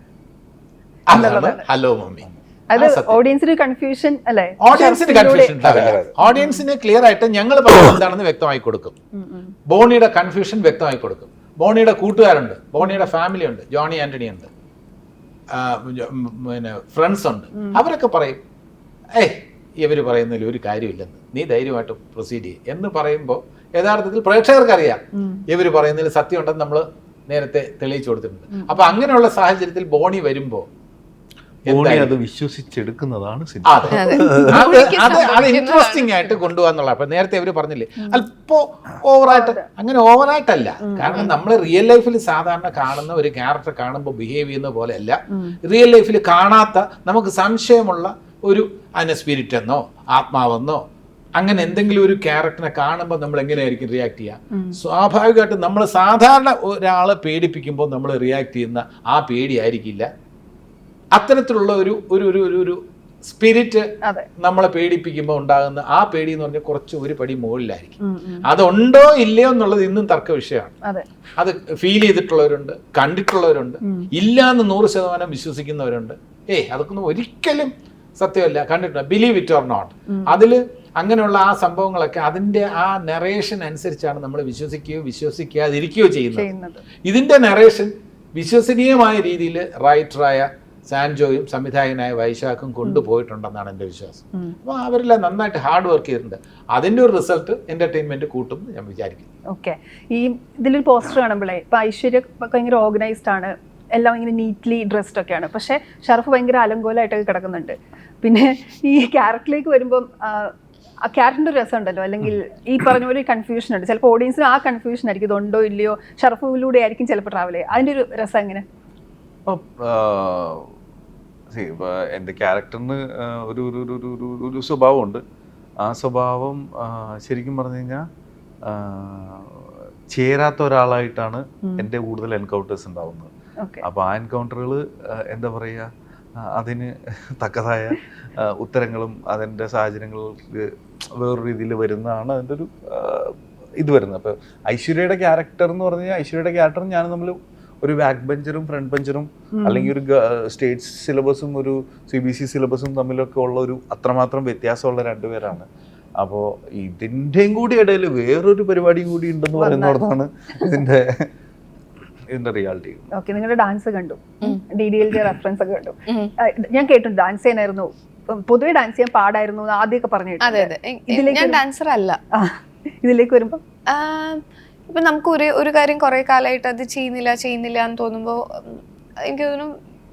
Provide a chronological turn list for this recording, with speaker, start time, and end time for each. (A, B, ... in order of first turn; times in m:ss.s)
0:01.1-0:03.2 A
0:01.1-0:01.6 B
0:02.7-0:05.6 B
0:04.6-0:09.0 A
0:05.6-0:06.2 C
0:06.2-0:06.6 B
0:09.1-0:09.5 B
0:09.7-0:14.5 A
0:12.8-0:13.1 B
0:15.5-0:18.4 A
0:19.2-0:30.7 A
0:25.2-0:25.4 B
0:31.7-0:32.1 A
0:31.7-0:34.7 C
0:33.6-0:50.8 A
0:33.9-0:36.4 D
0:39.3-0:39.6 B
0:40.9-0:41.3 B
0:45.3-0:45.6 B
0:51.4-1:00.1 A
0:54.5-0:54.8 B
1:01.1-1:03.9 A
1:04.0-1:04.3 B
1:04.4-1:10.8 A
1:08.0-1:08.5 B
1:11.4-1:26.5 A
1:20.1-1:20.4 B
1:26.3-1:26.8 B
1:27.0-1:39.3 A
1:39.5-1:58.6 B
1:59.5-2:00.7 C
2:01.5-2:05.2 C
2:05.8-2:08.1 C
2:08.6-2:13.3 C
2:13.6-2:13.8 B
2:13.8-2:35.7 C
2:29.6-2:29.9 B
2:36.2-2:41.3 C
2:39.6-2:40.0 B
2:42.3-2:43.1 C
2:43.1-2:51.6 B
2:46.1-2:46.3 D
2:50.4-2:52.2 D
2:52.3-2:53.6 B
2:53.9-2:59.8 D